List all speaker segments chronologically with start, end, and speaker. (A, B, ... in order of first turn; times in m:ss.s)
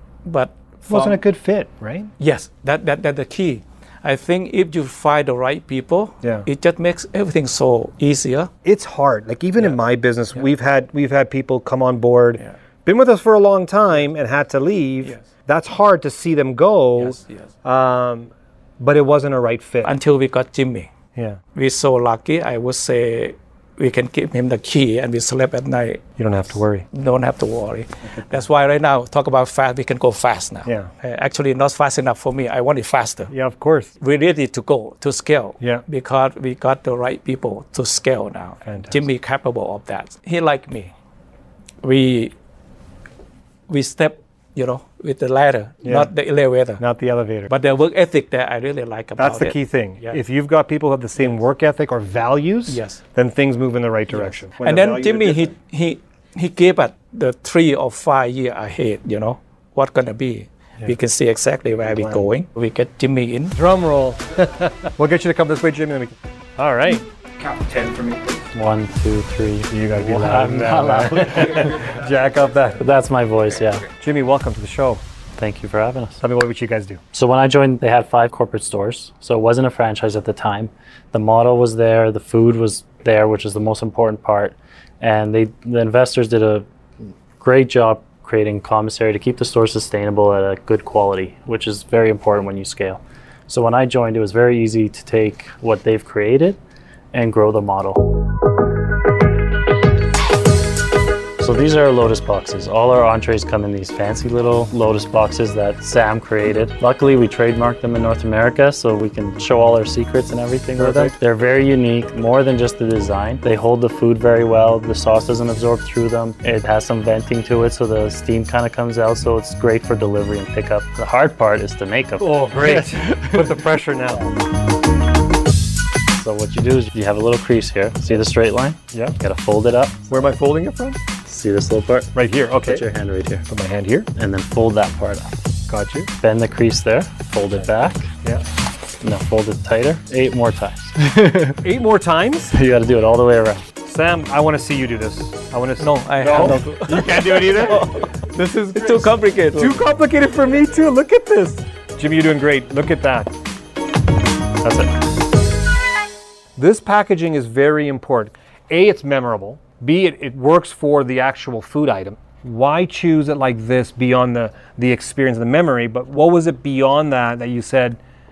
0:00.2-0:01.2 A
0:00.9-0:02.1 B
0:02.2-0:08.5 A
0:06.2-0:06.5 B
0:08.6-0:19.9 B
0:17.0-0:17.4 A
0:19.8-0:20.9 A
0:21.2-0:21.4 B
0:21.6-0:26.0 A
0:26.2-0:26.8 B
0:26.9-0:33.3 A
0:33.3-0:33.9 B
0:34.0-0:40.9 A
0:38.6-0:39.0 B
0:41.8-0:42.3 A
0:43.7-0:46.8 A
0:45.8-0:46.1 B
0:46.8-0:47.5 B
0:47.5-0:50.2 A
0:49.2-0:55.5 B
0:52.7-0:53.0 A
0:54.1-1:03.6 A
1:01.9-1:02.2 B
1:03.6-1:07.0 B
1:07.4-1:08.3 A
1:08.5-1:11.9 C
1:09.7-1:12.8 B
1:12.8-1:13.9 C
1:13.9-1:15.0 B
1:15.4-1:16.2 C
1:16.2-1:17.0 B
1:17.1-1:26.6 C
1:27.4-1:36.6 C
1:37.1-1:38.1 C
1:41.4-2:02.8 C
1:50.8-1:51.1 B
2:02.2-2:04.3 B
2:06.1-2:10.1 C
2:10.1-2:11.0 B
2:11.2-2:13.5 C
2:12.2-2:12.8 B
2:13.5-2:14.1 B
2:14.2-2:15.4 C
2:15.7-2:16.1 B
2:16.2-2:18.1 C
2:19.0-2:21.6 C
2:21.6-2:22.5 B
2:22.5-2:23.7 C
2:23.8-2:28.1 B
2:25.8-2:29.8 A
2:28.7-2:33.4 B
2:36.6-2:48.0 B